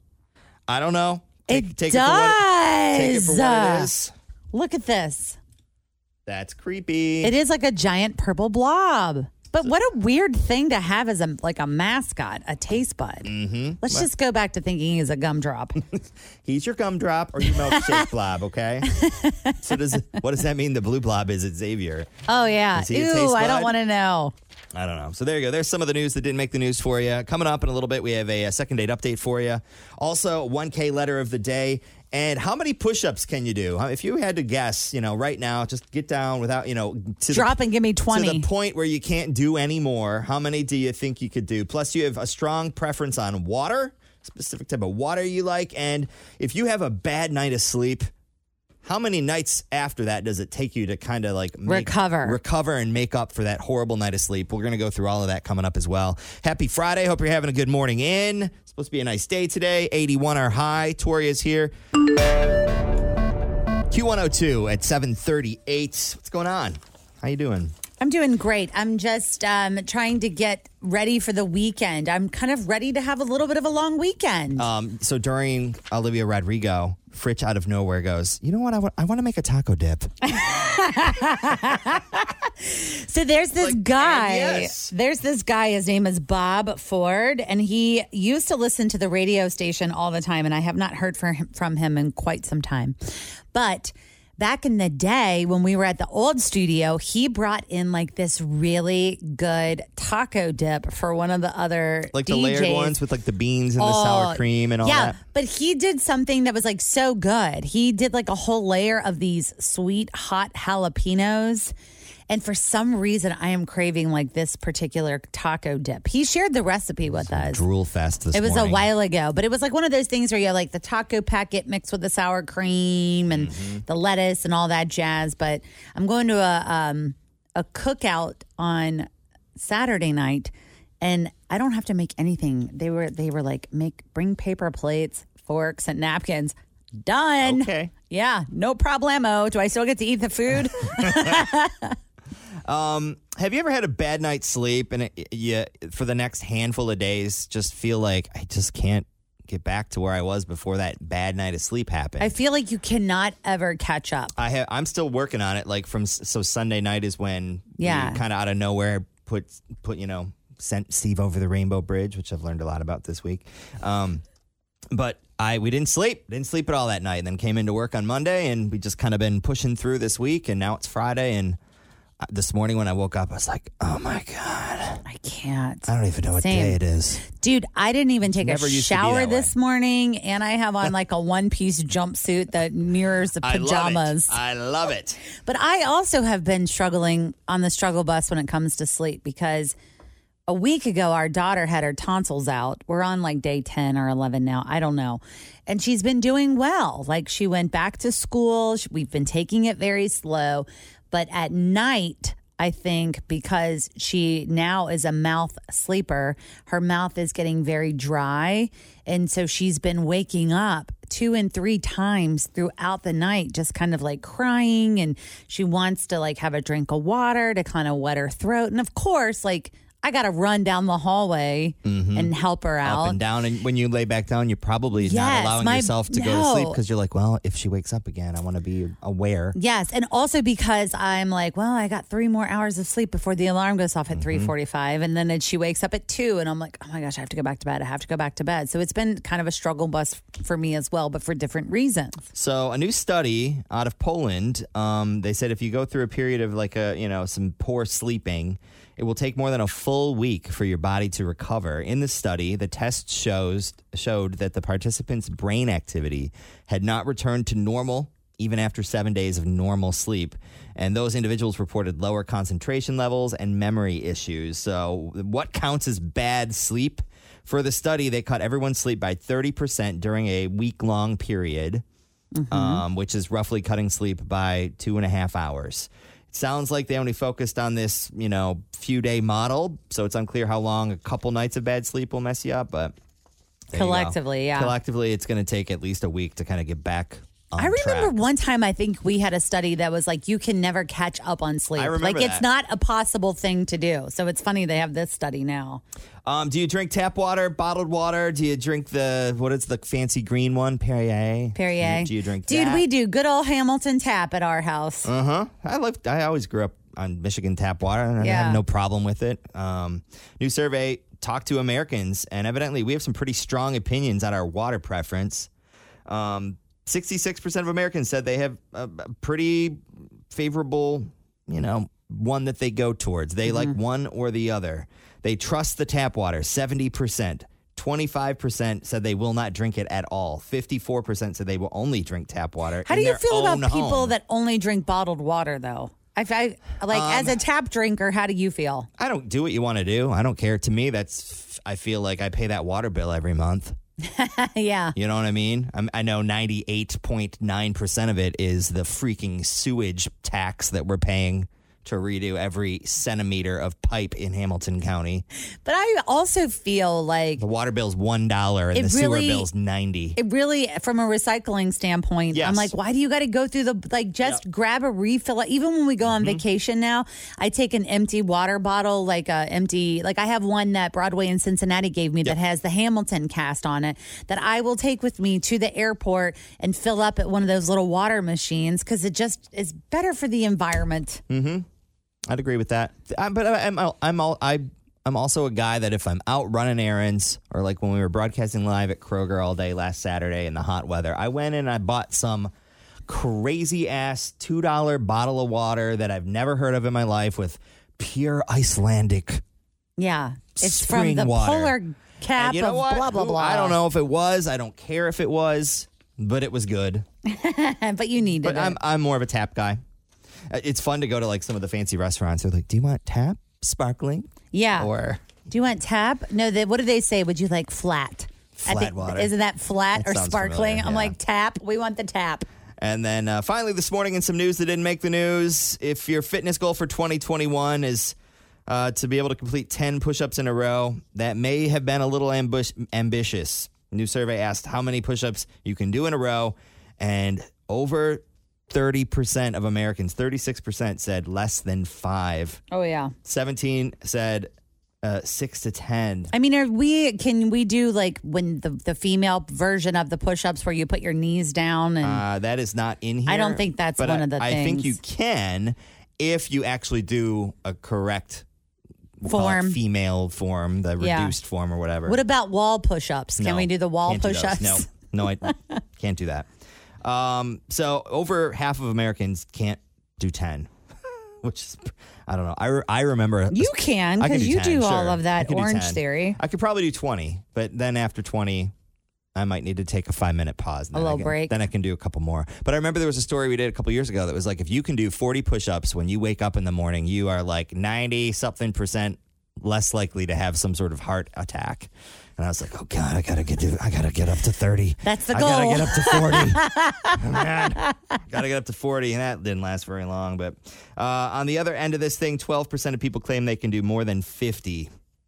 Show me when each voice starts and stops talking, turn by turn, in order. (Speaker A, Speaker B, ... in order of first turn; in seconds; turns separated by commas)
Speaker A: 0.7-4.1, Speaker B: 1.5-3.9, Speaker B: 4.5-5.4, Speaker A: 6.2-7.3, Speaker B: 7.2-15.8, Speaker A: 13.2-14.1, Speaker A: 15.9-18.9, Speaker B: 17.5-18.1, Speaker B: 18.8-19.6, Speaker A: 19.6-22.1, Speaker B: 22.3-24.3, Speaker A: 22.7-23.7, Speaker A: 24.7-37.6, Speaker B: 37.3-38.5, Speaker A: 38.1-48.1, Speaker A: 48.8-61.7, Speaker B: 51.6-52.4, Speaker A: 63.9-67.7, Speaker B: 68.0-74.7, Speaker A: 74.6-80.1, Speaker B: 80.2-93.0, Speaker A: 83.6-84.9, Speaker B: 93.5-103.0, Speaker A: 102.1-105.2, Speaker B: 103.8-111.7, Speaker B: 112.3-117.7, Speaker A: 117.1-118.9, Speaker B: 118.3-141.9, Speaker A: 123.3-123.8, Speaker A: 137.4-137.9, Speaker A: 142.7-152.3, Speaker B: 152.2-154.3, Speaker A: 154.4-164.2, Speaker B: 157.8-158.2, Speaker A: 164.9-171.6, Speaker A: 172.2-175.0, Speaker B: 175.1-184.4, Speaker A: 175.9-177.2, Speaker A: 178.2-179.5, Speaker A: 183.4-185.2, Speaker B: 185.4-189.8, Speaker B: 190.5-223.2, Speaker A: 221.8-222.3, Speaker A: 222.8-229.6, Speaker B: 225.0-226.8, Speaker B: 229.5-242.2, Speaker A: 234.1-234.5, Speaker A: 242.3-271.8, Speaker B: 272.3-272.8, Speaker A: 272.5-282.9, Speaker A: 283.7-288.1, Speaker B: 283.7-284.8, Speaker B: 287.6-295.8, Speaker A: 291.8-292.5, Speaker A: 296.2-302.8, Speaker B: 301.5-305.1, Speaker A: 305.0-315.5, Speaker B: 308.2-308.6, Speaker A: 316.1-334.1, Speaker B: 323.5-323.8, Speaker B: 332.9-338.9, Speaker A: 336.9-337.4, Speaker A: 339.0-343.8, Speaker B: 344.0-344.9, Speaker A: 344.9-355.2, Speaker B: 355.6-357.4, Speaker A: 357.4-360.2, Speaker B: 358.7-359.4, Speaker B: 360.1-381.2, Speaker A: 362.3-362.7, Speaker A: 366.1-366.4, Speaker A: 381.3-381.6, Speaker A: 382.3-392.5, Speaker A: 393.1-399.4, Speaker B: 400.0-403.8, Speaker A: 400.6-401.8, Speaker A: 402.4-407.0, Speaker B: 407.3-408.8, Speaker A: 408.4-409.8, Speaker A: 410.5-415.2, Speaker B: 414.5-414.9, Speaker B: 415.5-422.4, Speaker A: 418.6-419.3, Speaker A: 419.9-421.1, Speaker A: 422.8-428.1, Speaker A: 428.7-442.6, Speaker B: 442.7-443.1, Speaker A: 443.2-444.5, Speaker A: 445.0-446.3, Speaker B: 446.3-452.2, Speaker A: 452.0-458.4, Speaker B: 453.2-455.0, Speaker A: 459.2-462.2, Speaker B: 459.2-459.8, Speaker B: 461.0-461.3, Speaker B: 462.1-464.9, Speaker A: 463.4-466.5, Speaker A: 467.0-470.7, Speaker A: 471.4-478.7, Speaker B: 473.5-476.4, Speaker A: 479.4-496.6, Speaker B: 480.9-481.6, Speaker B: 495.0-497.9, Speaker A: 497.2-504.9